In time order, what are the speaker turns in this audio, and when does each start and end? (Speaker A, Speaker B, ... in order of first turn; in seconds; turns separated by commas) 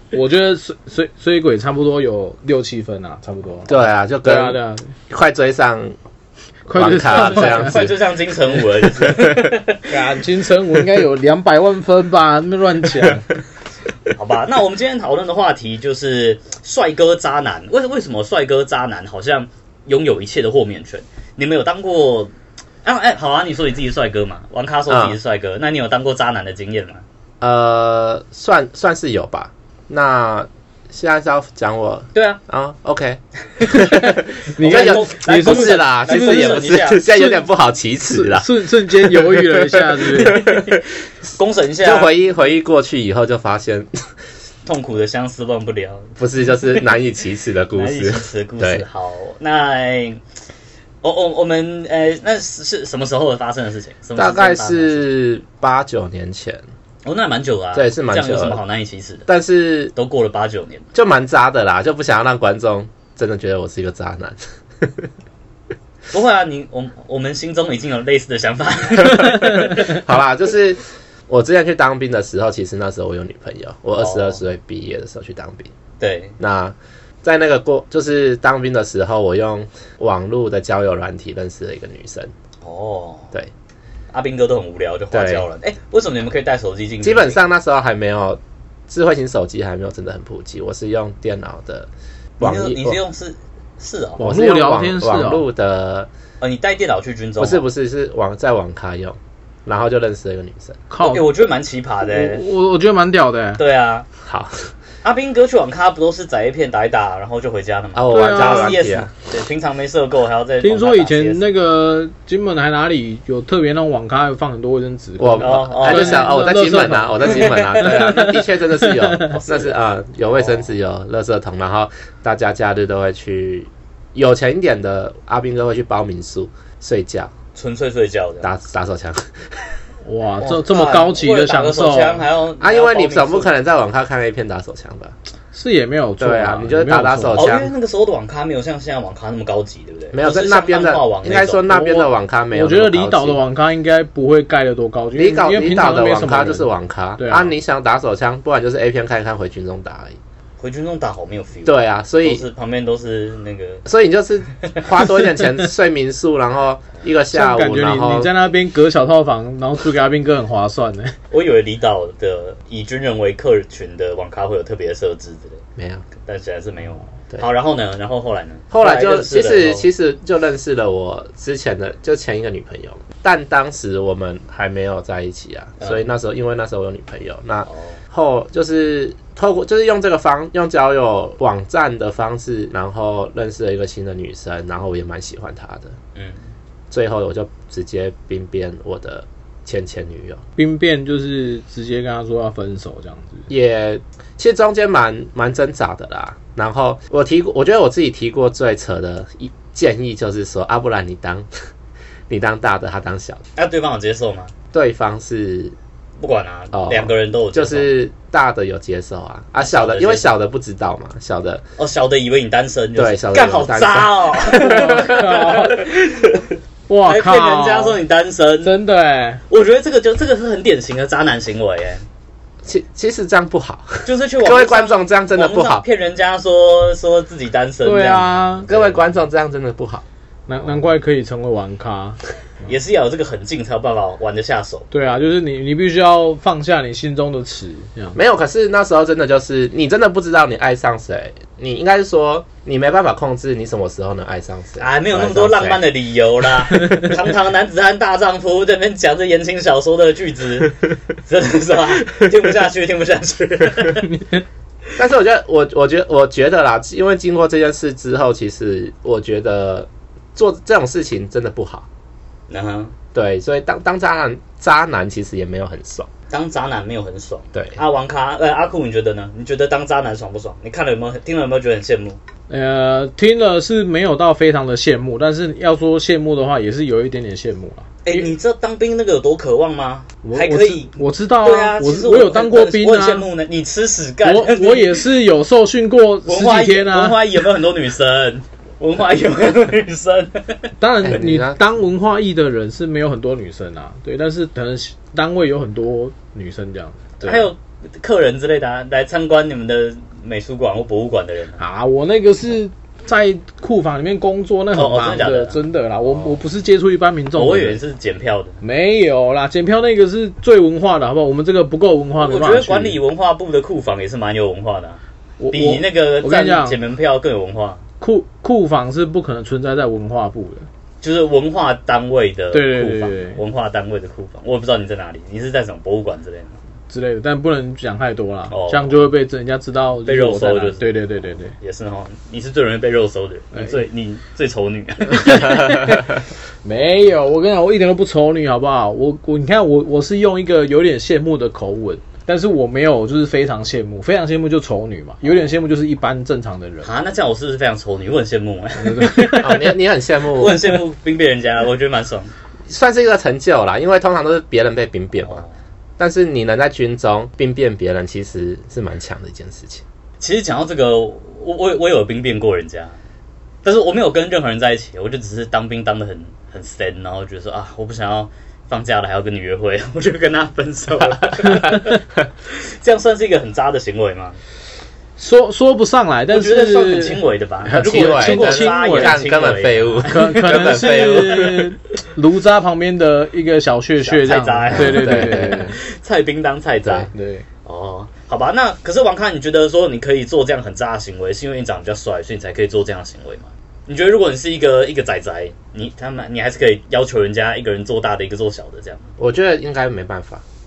Speaker A: 0.1-4.9, Speaker B: 3.7-5.9, Speaker A: 6.7-7.9, Speaker B: 6.7-7.9, Speaker C: 7.0-9.9, Speaker B: 9.0-9.5, Speaker A: 9.9-13.2, Speaker C: 14.1-22.3, Speaker C: 22.8-27.0, Speaker B: 24.9-25.1, Speaker B: 27.4-40.8, Speaker C: 32.1-32.4, Speaker A: 33.6-37.5, Speaker C: 34.6-37.0, Speaker A: 38.1-40.6, Speaker C: 41.3-42.1, Speaker B: 41.8-43.9, Speaker C: 44.6-46.1, Speaker B: 46.2-48.8, Speaker C: 47.7-50.2, Speaker C: 51.0-55.0, Speaker B: 54.1-56.6, Speaker C: 57.0-59.3, Speaker B: 57.7-58.6, Speaker B: 59.3-59.9, Speaker C: 59.9-60.9, Speaker B: 60.9-65.1, Speaker C: 66.1-70.0, Speaker B: 69.2-75.7, Speaker C: 74.0-74.4, Speaker C: 76.0-76.3, Speaker B: 76.4-82.3, Speaker C: 82.6-83.3, Speaker C: 84.1-87.4, Speaker B: 85.1-85.5, Speaker B: 87.0-91.9, Speaker B: 92.4-93.0, Speaker C: 92.4-94.2, Speaker A: 94.2-95.4, Speaker B: 94.2-96.1, Speaker C: 96.4-97.6, Speaker B: 97.4-100.8, Speaker A: 100.9-101.3, Speaker C: 101.0-102.4, Speaker A: 102.0-103.6, Speaker C: 103.6-104.1, Speaker B: 104.2-104.7, Speaker C: 105.0-111.5, Speaker B: 107.9-109.1, Speaker A: 108.1-108.9, Speaker A: 110.6-119.3, Speaker B: 115.2-127.3, Speaker C: 115.4-116.3, Speaker C: 117.3-118.1, Speaker C: 119.3-119.8, Speaker C: 120.3-120.7, Speaker C: 127.5-128.5, Speaker B: 128.4-129.2, Speaker A: 130.0-132.2, Speaker C: 130.4-133.5, Speaker B: 132.6-135.1, Speaker A: 135.5-137.6, Speaker B: 136.2-137.7, Speaker C: 137.3-141.7, Speaker B: 140.1-143.4, Speaker A: 141.7-147.5, Speaker B: 145.1-150.2, Speaker C: 150.6-153.8, Speaker B: 151.6-152.4, Speaker B: 153.8-158.3, Speaker A: 157.3-161.1, Speaker C: 161.3-165.6, Speaker B: 165.8-166.0, Speaker C: 166.2-169.8, Speaker B: 168.7-185.9, Speaker C: 175.8-176.1, Speaker C: 177.7-178.0, Speaker B: 186.9-190.4, Speaker A: 190.6-193.5, Speaker B: 193.5-201.5, Speaker B: 202.3-203.4, Speaker C: 203.6-204.5, Speaker B: 204.7-205.7, Speaker C: 206.2-208.0, Speaker B: 206.7-211.6, Speaker C: 209.6-210.3, Speaker C: 211.8-216.5, Speaker B: 212.9-215.4, Speaker A: 214.6-215.9, Speaker A: 216.9-218.0, Speaker C: 217.0-218.7, Speaker A: 218.6-219.4, Speaker C: 219.5-222.0, Speaker B: 222.6-225.8, Speaker C: 224.0-229.0, Speaker A: 227.8-228.7, Speaker B: 228.7-230.0, Speaker A: 230.5-232.2, Speaker C: 232.7-234.9, Speaker A: 234.9-238.2, Speaker B: 238.1-245.8, Speaker C: 244.8-254.1, Speaker A: 254.1-254.4, Speaker B: 254.9-261.9, Speaker C: 262.5-262.9, Speaker B: 263.1-266.1, Speaker C: 266.3-272.2, Speaker B: 267.5-267.8, Speaker A: 272.5-278.3, Speaker C: 278.0-285.0, Speaker A: 280.2-283.3, Speaker A: 284.2-287.4, Speaker C: 286.2-290.6, Speaker A: 290.8-297.5, Speaker B: 291.0-291.6, Speaker C: 297.2-301.6, Speaker A: 301.6-307.8, Speaker C: 304.7-306.4, Speaker C: 307.3-308.6, Speaker A: 308.6-313.0, Speaker C: 312.2-315.0, Speaker A: 315.4-316.8, Speaker C: 315.5-317.8, Speaker A: 318.0-320.6, Speaker C: 321.0-326.6, Speaker A: 322.5-323.4, Speaker A: 326.9-331.5, Speaker C: 328.5-328.9, Speaker C: 330.1-330.9, Speaker C: 331.6-336.0, Speaker A: 333.5-333.9, Speaker A: 335.1-346.9, Speaker C: 346.8-349.6, Speaker A: 348.8-349.7, Speaker B: 349.4-350.6, Speaker C: 350.3-352.3, Speaker B: 352.7-355.4, Speaker C: 355.2-355.5, Speaker B: 356.0-359.8, Speaker C: 360.2-362.9, Speaker C: 363.6-372.0, Speaker A: 371.6-371.9, Speaker C: 372.5-374.4, Speaker A: 375.2-379.2, Speaker C: 376.3-381.0, Speaker B: 377.8-381.7, Speaker A: 380.1-385.8, Speaker C: 384.0-387.1, Speaker B: 384.7-385.7, Speaker B: 386.8-387.1, Speaker A: 387.1-387.4, Speaker C: 387.6-399.1, Speaker B: 399.2-400.4